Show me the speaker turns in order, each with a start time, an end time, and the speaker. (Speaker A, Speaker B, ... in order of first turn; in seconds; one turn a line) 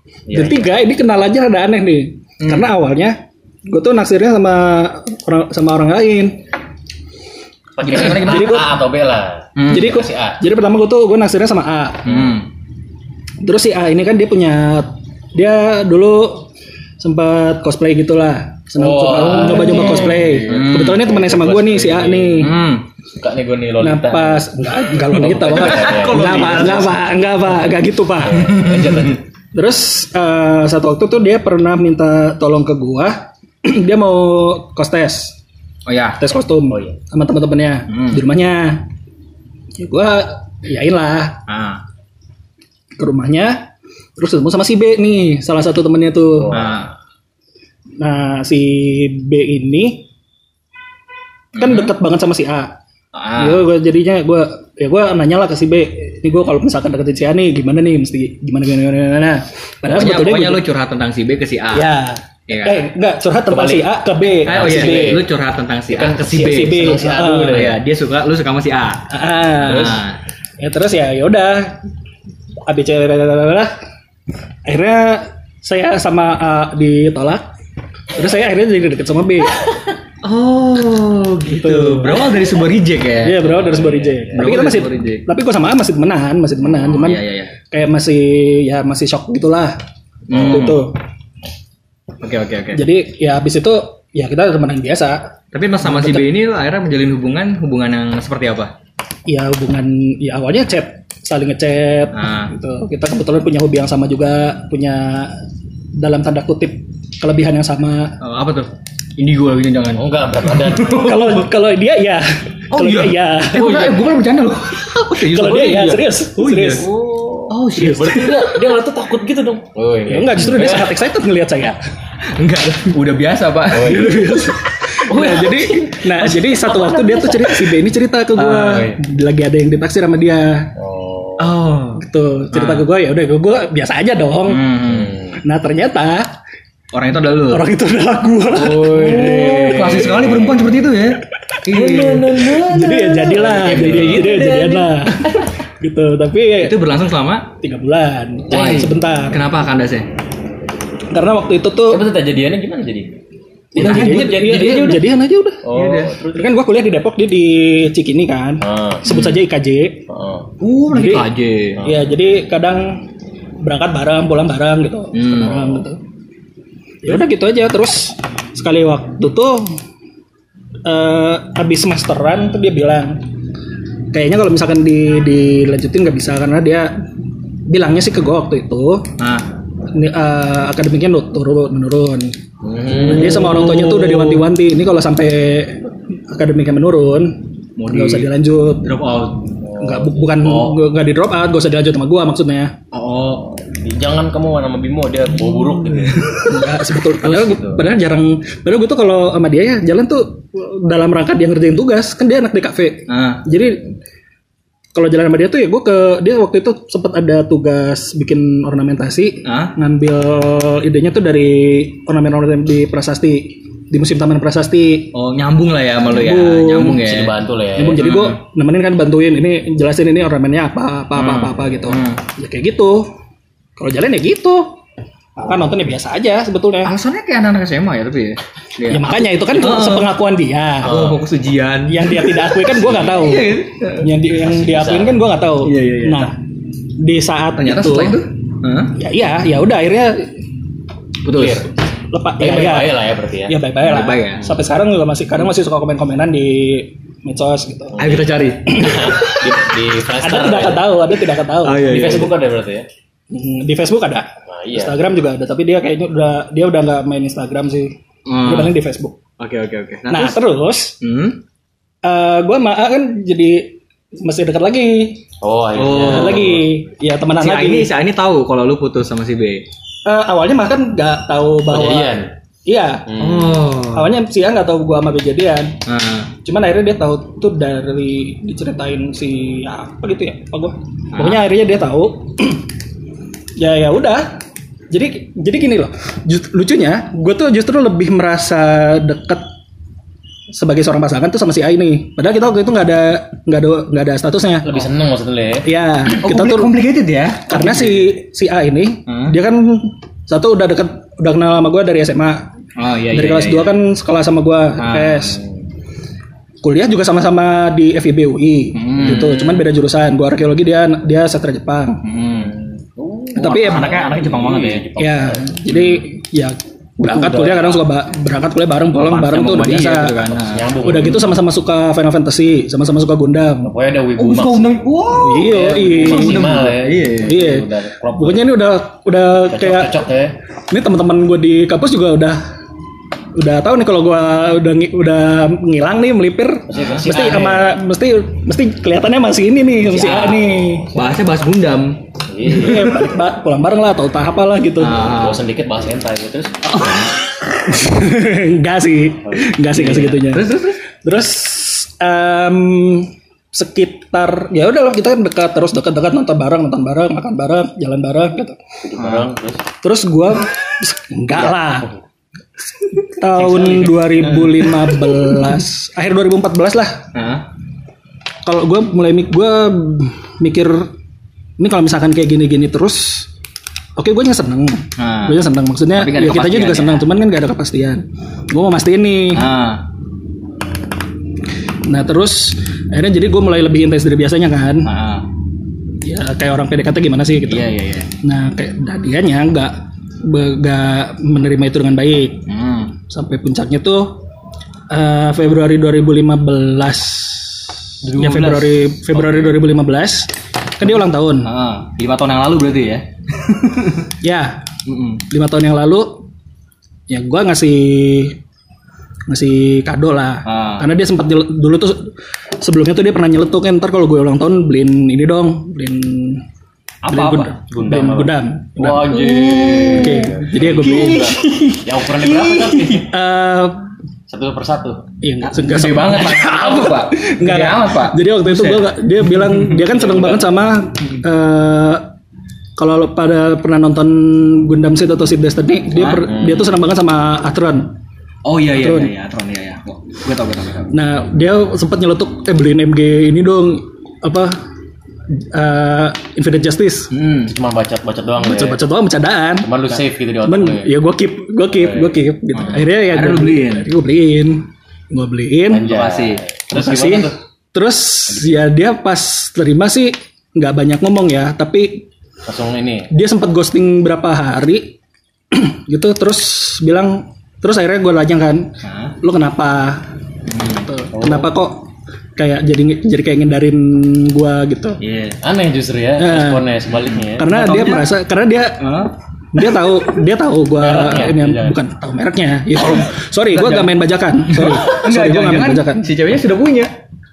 Speaker A: 0.3-0.8
Speaker B: 0.3-6.4
Speaker C: 2.4-2.7
Speaker A: 7.8-10.4
Speaker C: 7.8-8.5
Speaker B: 7.9-8.7
Speaker C: 9.6-10.0
Speaker B: 9.7-12.2
Speaker C: 12.0-12.5
Speaker A: 12.1-12.4
Speaker B: 13.4-16.5
Speaker B: 17.0-22.5
Speaker A: 18.8-22.6
Speaker C: 19.4-20.9
Speaker C: 22.4-22.8
Speaker A: 23.1-24.5
Speaker B: 23.8-35.4
Speaker A: 25.1-27.0
Speaker C: 25.1-27.0
Speaker A: 28.2-29.2
Speaker C: 28.5-29.0
Speaker C: 35.9-36.2
Speaker B: 36.2-38.8
Speaker A: 36.7-37.0
Speaker C: 37.9-38.2
Speaker B: 39.8-41.4
Speaker C: 41.5-41.8
Speaker B: 43.0-46.5
Speaker A: 46.4-46.8
Speaker C: 46.5-46.9
Speaker B: 48.0-50.1
Speaker B: 51.5-52.8
Speaker C: 51.6-51.9
Speaker C: 53.1-53.6
Speaker B: 53.4-60.6
Speaker C: 59.9-61.9
Speaker B: 61.7-65.2
Speaker C: 62.5-62.9
Speaker A: 63.5-65.3
Speaker C: 64.4-66.8
Speaker A: 65.9-67.8
Speaker B: 66.3-67.7
Speaker C: 67.4-70.2
Speaker B: 69.1-70.0
Speaker A: 69.6-70.0
Speaker B: 70.6-71.8
Speaker B: 72.7-73.7
Speaker B: 74.7-77.4
Speaker B: 78.1-79.7
Speaker C: 80.2-85.2
Speaker B: 81.5-82.4
Speaker B: 83.2-89.7
Speaker A: 83.5-84.5
Speaker C: 86.6-87.5
Speaker C: 90.3-90.8
Speaker A: 90.3-90.8
Speaker B: 90.3-90.9
Speaker C: 92.2-92.8
Speaker B: 92.7-96.2
Speaker C: 95.5-98.7
Speaker B: 99.3-105.4
Speaker C: 102.1-102.5
Speaker B: 106.0-108.2
Speaker C: 108.2-111.4
Speaker A: 109.9-111.0
Speaker B: 110.9-113.9
Speaker C: 112.7-116.9
Speaker B: 115.2-116.9
Speaker A: 116.7-120.9
Speaker C: 117.5-118.6
Speaker B: 120.1-121.8
Speaker C: 122.3-124.2
Speaker A: 123.7-124.4
Speaker B: 123.8-130.7
Speaker A: 125.1-127.6
Speaker A: 128.3-129.0
Speaker A: 130.7-131.6
Speaker C: 131.4-132.0
Speaker B: 131.9-134.6
Speaker C: 132.5-132.9
Speaker C: 134.5-135.1
Speaker A: 134.8-135.3
Speaker B: 135.4-136.3
Speaker C: 136.9-137.6
Speaker B: 137.5-139.3
Speaker A: 138.5-140.7
Speaker C: 138.9-142.3
Speaker A: 141.7-145.4
Speaker B: 142.6-146.8
Speaker C: 143.7-144.2
Speaker C: 146.6-147.5
Speaker B: 147.6-149.4
Speaker C: 148.5-150.1
Speaker B: 151.1-152.1
Speaker A: 151.9-153.2
Speaker B: 153.7-155.7
Speaker A: 153.8-155.0
Speaker C: 153.8-155.0
Speaker A: 155.6-156.5
Speaker C: 155.7-156.2
Speaker B: 156.3-160.0
Speaker A: 158.6-159.1
Speaker C: 159.1-159.4
Speaker A: 160.1-160.5
Speaker C: 160.6-161.8
Speaker B: 160.9-161.3
Speaker A: 161.8-162.1
Speaker B: 161.8-163.0
Speaker B: 163.6-166.0
Speaker C: 165.1-165.6
Speaker A: 165.4-165.8
Speaker B: 167.0-169.8
Speaker B: 170.8-173.2
Speaker B: 174.1-176.9
Speaker B: 177.7-179.1
Speaker C: 179.2-179.4
Speaker B: 179.9-182.3
Speaker A: 182.6-183.6
Speaker C: 182.9-184.4
Speaker B: 182.9-188.9
Speaker C: 187.8-188.3
Speaker C: 188.8-189.4
Speaker A: 189.6-190.8
Speaker B: 189.8-192.7
Speaker C: 192.9-193.4
Speaker A: 193.4-197.9
Speaker B: 196.3-203.9
Speaker C: 203.1-203.4
Speaker B: 204.9-215.1
Speaker C: 209.4-209.7
Speaker C: 215.1-217.3
Speaker B: 216.1-217.0
Speaker A: 216.9-218.0
Speaker B: 217.8-223.1
Speaker C: 218.0-218.4
Speaker C: 221.2-222.2
Speaker B: 223.8-224.8
Speaker B: 225.4-226.9
Speaker C: 226.8-230.1
Speaker B: 228.9-230.9
Speaker A: 230.8-231.2
Speaker C: 230.8-234.1
Speaker B: 231.8-236.3
Speaker A: 232.7-233.3
Speaker A: 234.3-235.2
Speaker C: 235.6-236.3
Speaker B: 237.0-238.2
Speaker C: 237.6-238.9
Speaker B: 238.9-240.3
Speaker C: 241.2-241.7
Speaker A: 241.3-241.7
Speaker B: 242.1-248.0
Speaker A: 242.4-243.6
Speaker C: 243.8-244.4
Speaker A: 247.9-251.0
Speaker C: 248.0-249.1
Speaker B: 248.7-249.6
Speaker B: 250.2-252.3
Speaker C: 251.6-252.3
Speaker A: 251.8-252.9
Speaker B: 253.3-259.2
Speaker A: 254.5-255.0
Speaker C: 258.2-258.7
Speaker C: 259.4-260.4
Speaker B: 260.1-260.9
Speaker C: 261.0-261.4
Speaker B: 262.0-265.2
Speaker A: 265.4-266.6
Speaker C: 265.8-266.6
Speaker B: 266.1-267.9
Speaker C: 267.4-269.6
Speaker B: 270.1-273.1
Speaker A: 271.7-272.3
Speaker A: 273.1-273.7
Speaker C: 273.2-274.1
Speaker B: 273.9-275.8
Speaker C: 275.9-276.3
Speaker B: 276.4-282.6
Speaker C: 281.1-281.4
Speaker B: 283.6-284.3
Speaker B: 284.9-289.5
Speaker B: 290.5-294.7
Speaker A: 294.6-295.7
Speaker B: 295.6-296.7
Speaker C: 296.1-298.1
Speaker B: 297.5-302.5
Speaker C: 299.1-299.3
Speaker C: 302.8-303.7
Speaker B: 303.1-305.4
Speaker C: 304.8-305.4
Speaker B: 306.6-312.0
Speaker C: 308.7-309.5
Speaker A: 309.0-309.3
Speaker C: 312.0-312.5
Speaker A: 312.4-315.6
Speaker B: 313.4-313.9
Speaker C: 313.4-314.8
Speaker B: 315.0-320.2
Speaker A: 317.0-317.8
Speaker C: 318.9-320.7
Speaker A: 320.5-321.4
Speaker B: 320.8-323.7
Speaker A: 323.6-324.8
Speaker C: 324.2-327.4
Speaker B: 325.2-326.6
Speaker A: 325.4-328.5
Speaker B: 327.2-329.9
Speaker A: 329.5-330.3
Speaker B: 330.7-332.4
Speaker B: 333.4-341.0
Speaker A: 336.7-337.8
Speaker C: 336.7-337.5
Speaker A: 339.9-341.0
Speaker C: 340.0-340.3
Speaker C: 340.9-342.0
Speaker A: 342.3-343.1
Speaker B: 342.5-345.0
Speaker C: 342.6-342.9
Speaker C: 344.8-345.4
Speaker A: 345.0-346.7
Speaker C: 346.7-347.1
Speaker B: 347.5-358.6
Speaker C: 349.7-350.8
Speaker A: 358.8-359.6
Speaker C: 358.9-359.3
Speaker B: 359.8-361.9
Speaker A: 361.4-361.9
Speaker B: 362.9-367.1
Speaker C: 363.3-364.8
Speaker C: 367.1-367.4
Speaker B: 368.4-370.9
Speaker B: 371.6-373.3
Speaker B: 374.0-379.4
Speaker C: 375.0-375.4
Speaker C: 375.9-377.1
Speaker C: 379.3-379.8
Speaker B: 381.9-384.9
Speaker C: 384.8-385.2
Speaker B: 386.0-387.7
Speaker C: 387.4-388.1
Speaker B: 388.2-392.4
Speaker C: 392.5-392.9
Speaker B: 393.1-394.2
Speaker B: 394.9-401.5
Speaker C: 398.0-399.5
Speaker C: 401.4-404.1
Speaker B: 404.2-404.6
Speaker C: 404.9-405.2
Speaker B: 405.3-406.2
Speaker B: 407.1-408.4
Speaker B: 409.3-416.4
Speaker C: 410.4-410.8
Speaker C: 417.0-418.3
Speaker B: 417.1-419.2
Speaker A: 418.8-423.1
Speaker C: 418.9-423.1
Speaker B: 420.0-421.3
Speaker B: 423.0-423.8
Speaker A: 424.3-425.0
Speaker B: 425.2-432.1
Speaker C: 425.6-430.4
Speaker A: 425.6-426.8
Speaker B: 432.8-437.9
Speaker C: 435.9-436.6
Speaker A: 436.3-436.6
Speaker C: 438.4-440.9
Speaker B: 438.7-439.1
Speaker B: 440.9-444.6
Speaker B: 445.4-447.1
Speaker C: 447.1-447.5
Speaker A: 447.2-448.8
Speaker B: 448.4-449.7
Speaker A: 449.6-450.9
Speaker B: 450.4-455.8
Speaker A: 451.7-452.2
Speaker C: 452.5-453.9
Speaker A: 455.7-457.4
Speaker C: 455.8-456.4
Speaker B: 456.7-462.1
Speaker A: 458.3-458.6
Speaker A: 462.4-463.1
Speaker B: 463.1-465.0
Speaker B: 465.5-470.1
Speaker C: 468.8-469.1
Speaker C: 470.5-470.9
Speaker B: 470.7-471.9
Speaker A: 471.1-471.5
Speaker B: 472.4-475.0
Speaker C: 475.0-475.4
Speaker A: 475.4-477.5
Speaker B: 476.2-476.6
Speaker C: 477.0-478.1
Speaker B: 477.4-478.8
Speaker C: 478.8-479.1
Speaker B: 479.5-486.1
Speaker A: 480.8-481.8
Speaker C: 483.5-486.9